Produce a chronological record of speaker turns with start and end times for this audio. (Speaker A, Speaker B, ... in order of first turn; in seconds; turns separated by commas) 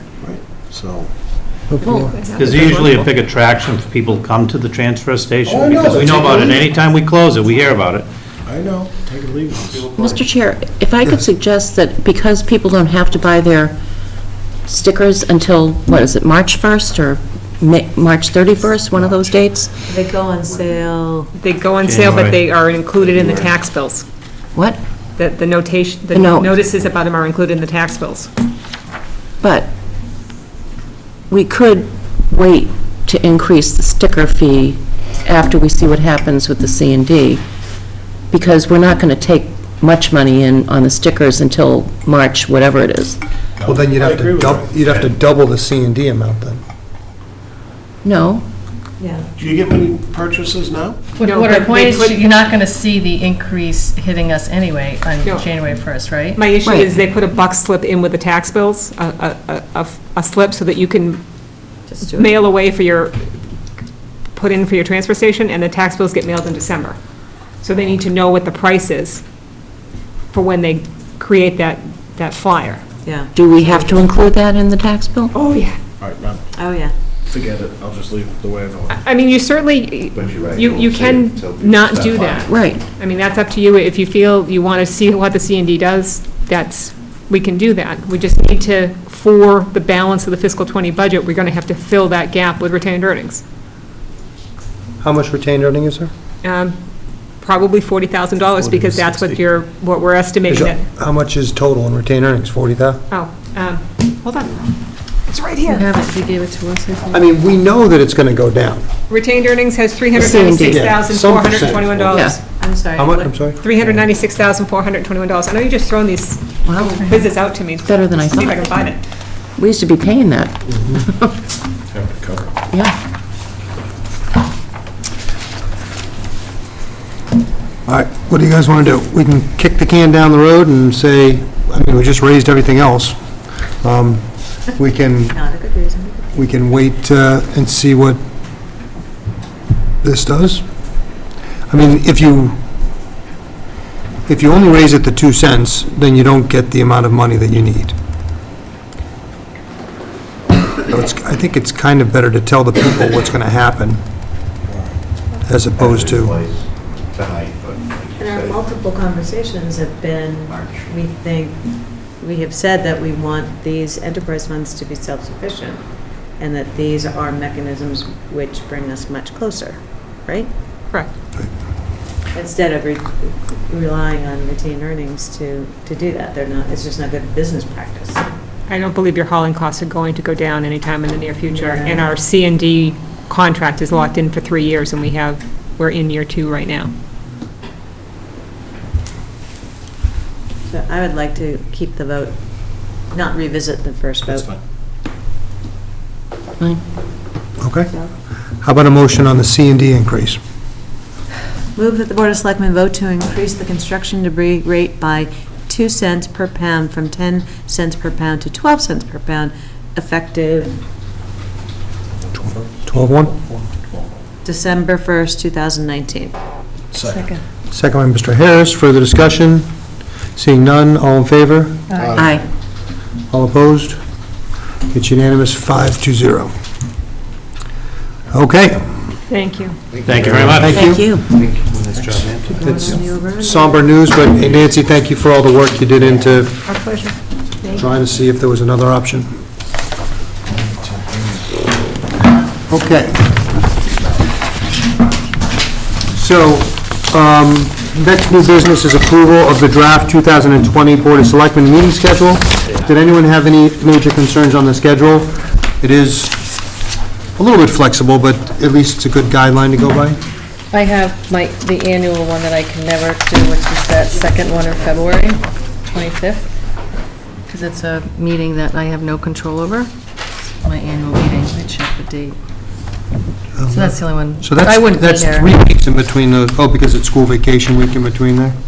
Speaker A: 0.2-1.1, Speaker B: 1.7-2.3, Speaker C: 1.8-3.1, Speaker D: 1.8-2.2, Speaker E: 2.4-8.1, Speaker A: 5.5-6.6, Speaker A: 8.5-9.9, Speaker E: 9.9-10.2, Speaker D: 9.9-13.8, Speaker D: 14.7-19.7, Speaker F: 19.8-21.3, Speaker C: 21.3-24.1, Speaker E: 21.8-22.4, Speaker D: 24.6-24.8, Speaker C: 25.2-28.3, Speaker D: 26.1-26.5, Speaker D: 29.4-29.7, Speaker D: 31.3-37.4, Speaker D: 38.3-43.2, Speaker A: 43.6-45.1, Speaker B: 43.7-46.6, Speaker D: 48.0-48.5, Speaker F: 49.0-49.3, Speaker A: 49.4-51.0, Speaker G: 51.2-56.5, Speaker C: 51.2-52.2, Speaker C: 56.4-61.2, Speaker D: 56.6-56.9, Speaker F: 61.9-62.4, Speaker C: 62.0-63.2, Speaker C: 64.3-67.0, Speaker C: 67.6-69.2, Speaker C: 70.3-72.8, Speaker F: 73.0-74.1, Speaker D: 73.3-75.3, Speaker C: 75.3-75.8, Speaker A: 76.0-76.4, Speaker F: 76.6-76.9, Speaker A: 77.3-79.0, Speaker C: 78.9-93.4, Speaker H: 80.2-82.5, Speaker D: 82.5-82.8, Speaker B: 95.0-96.1, Speaker C: 96.4-96.8, Speaker C: 97.4-100.8, Speaker B: 100.5-103.0, Speaker C: 103.1-104.7, Speaker C: 105.3-105.9, Speaker G: 105.7-107.2, Speaker B: 107.1-108.8, Speaker C: 109.1-112.4, Speaker D: 110.1-110.8, Speaker B: 110.6-112.0, Speaker D: 112.1-112.4, Speaker F: 112.6-113.3, Speaker B: 112.9-113.6, Speaker C: 113.6-119.0, Speaker D: 116.6-117.0, Speaker D: 117.8-118.7, Speaker D: 119.6-120.5, Speaker A: 121.9-122.5, Speaker B: 127.8-133.2, Speaker B: 133.8-135.4, Speaker F: 135.3-136.4, Speaker B: 136.3-138.2, Speaker B: 140.0-140.6, Speaker B: 141.7-142.6, Speaker B: 144.3-147.9, Speaker B: 150.8-154.0, Speaker A: 154.7-154.9, Speaker B: 155.4-156.4, Speaker H: 155.8-158.7, Speaker F: 158.2-165.8, Speaker H: 160.5-160.9, Speaker F: 166.4-170.5, Speaker F: 172.3-178.2, Speaker C: 178.7-186.9, Speaker F: 181.5-182.1, Speaker F: 190.7-194.5, Speaker A: 194.2-194.6, Speaker B: 197.6-197.9, Speaker B: 198.6-200.4, Speaker F: 201.8-210.8, Speaker A: 212.3-214.2, Speaker B: 212.8-213.3, Speaker F: 214.4-216.3, Speaker A: 216.9-217.3, Speaker G: 217.1-217.3, Speaker B: 217.7-219.7, Speaker B: 220.3-221.8, Speaker A: 221.9-222.4, Speaker D: 222.2-222.4, Speaker B: 223.3-224.0, Speaker B: 224.9-226.5, Speaker B: 228.3-229.0, Speaker C: 229.3-229.8, Speaker H: 230.0-230.9, Speaker E: 230.0-232.5, Speaker B: 230.2-231.1, Speaker D: 230.7-231.3, Speaker B: 232.5-236.6, Speaker F: 232.5-234.0, Speaker C: 236.7-237.9, Speaker B: 237.6-239.4, Speaker B: 242.7-243.4, Speaker B: 246.1-256.4, Speaker B: 257.4-260.2, Speaker G: 260.7-266.5, Speaker G: 267.5-269.9, Speaker G: 270.6-272.4, Speaker B: 273.6-278.6, Speaker G: 273.7-275.5